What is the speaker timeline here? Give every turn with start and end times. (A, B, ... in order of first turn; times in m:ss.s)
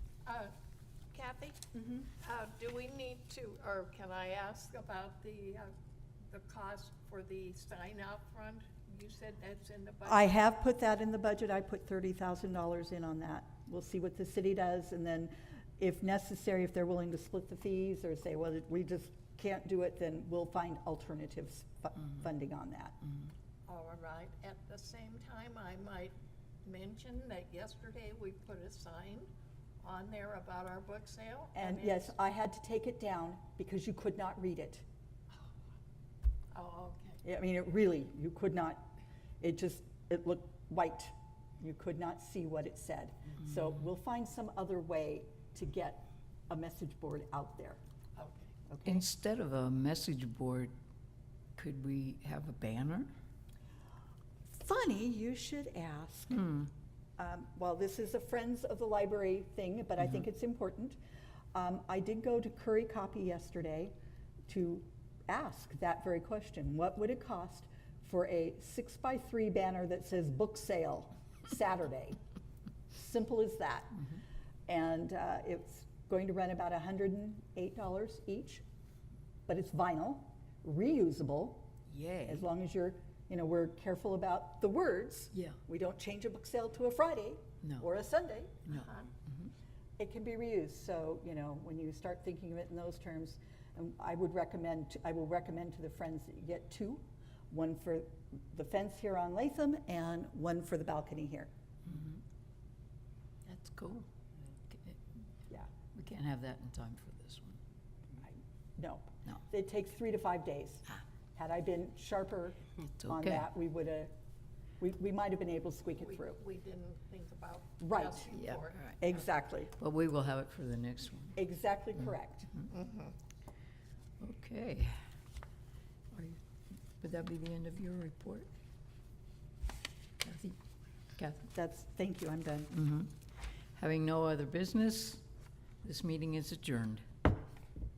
0:00.2-0:00.5 A
0:01.1-0:05.7 A
0:01.7-0:02.1 B
0:06.3-0:10.3 A
0:10.0-0:23.0 B
0:23.7-0:29.3 A
0:29.8-0:32.1 A
0:31.6-0:34.8 B
0:36.5-0:37.2 A
0:37.2-0:38.9 B
0:39.4-0:47.8 B
0:48.2-0:48.5 A
0:48.7-0:49.0 B
0:48.8-0:50.7 C
0:51.6-0:53.1 C
0:54.5-0:56.7 B
0:57.2-1:01.0 B
1:01.5-1:03.9 B
1:04.5-1:12.2 B
1:12.9-1:14.1 B
1:14.7-1:18.6 B
1:19.5-1:21.7 B
1:21.9-1:22.5 C
1:22.3-1:28.7 B
1:28.7-1:29.5 C
1:28.7-1:29.1 A
1:30.0-1:41.5 B
1:41.9-1:42.2 C
1:43.5-1:44.1 C
1:44.7-1:45.0 C
1:45.9-1:47.6 C
1:48.2-1:54.1 B
1:53.0-1:53.5 C
1:54.8-1:56.4 B
1:56.0-1:59.0 A
1:57.8-1:58.3 B
1:58.3-1:59.1 C
1:59.0-1:59.7 B
1:59.7-2:01.4 C
2:01.4-2:02.5 B
2:02.7-2:03.1 A
2:04.2-2:05.0 C
2:06.1-2:06.4 C
2:07.0-2:08.5 C
2:10.2-2:10.6 C
2:11.2-2:11.5 C
2:11.5-2:12.8 B
2:12.7-2:13.1 C
2:13.8-2:15.2 C
2:15.8-2:17.0 C